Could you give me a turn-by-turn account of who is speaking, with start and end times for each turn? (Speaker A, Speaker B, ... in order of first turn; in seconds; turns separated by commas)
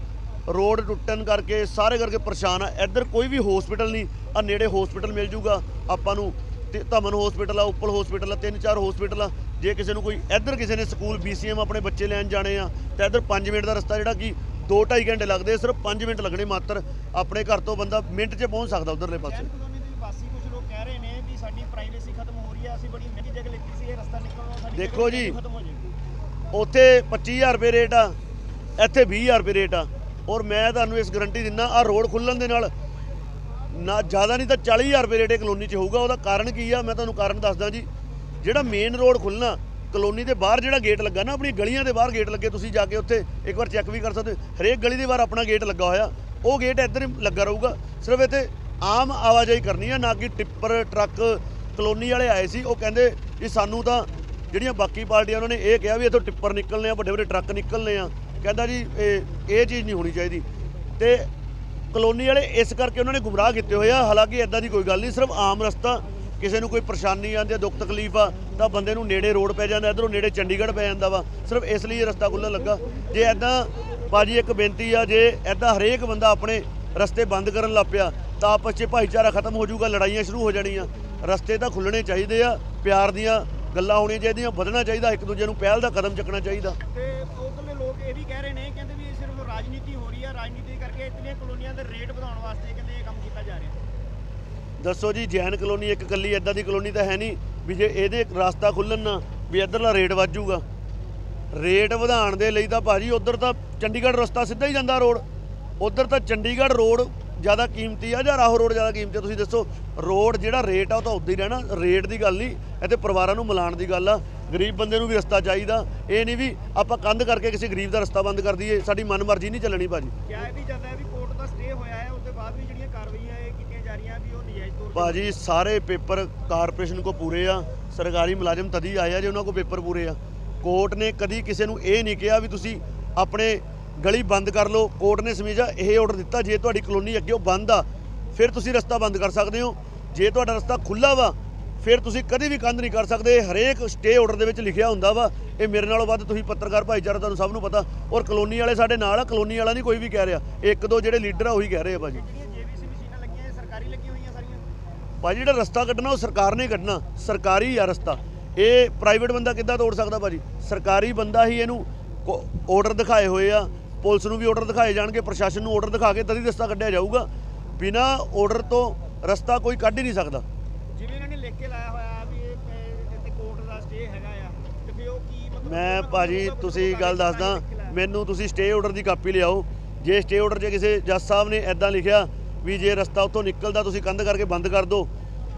Speaker A: 0.5-19.5, Speaker B: 19.2-25.9, Speaker A: 24.7-25.4, Speaker A: 26.5-28.1, Speaker A: 28.8-32.7, Speaker A: 33.7-37.9, Speaker A: 38.4-60.4, Speaker A: 61.0-61.3, Speaker A: 61.9-86.8, Speaker B: 86.8-93.8, Speaker A: 94.8-100.6, Speaker A: 101.5-105.2, Speaker A: 105.8-120.1, Speaker B: 120.2-125.4, Speaker A: 124.9-152.2, Speaker B: 152.1-154.6, Speaker A: 155.2-170.4, Speaker B: 170.9-178.0, Speaker A: 175.6-185.1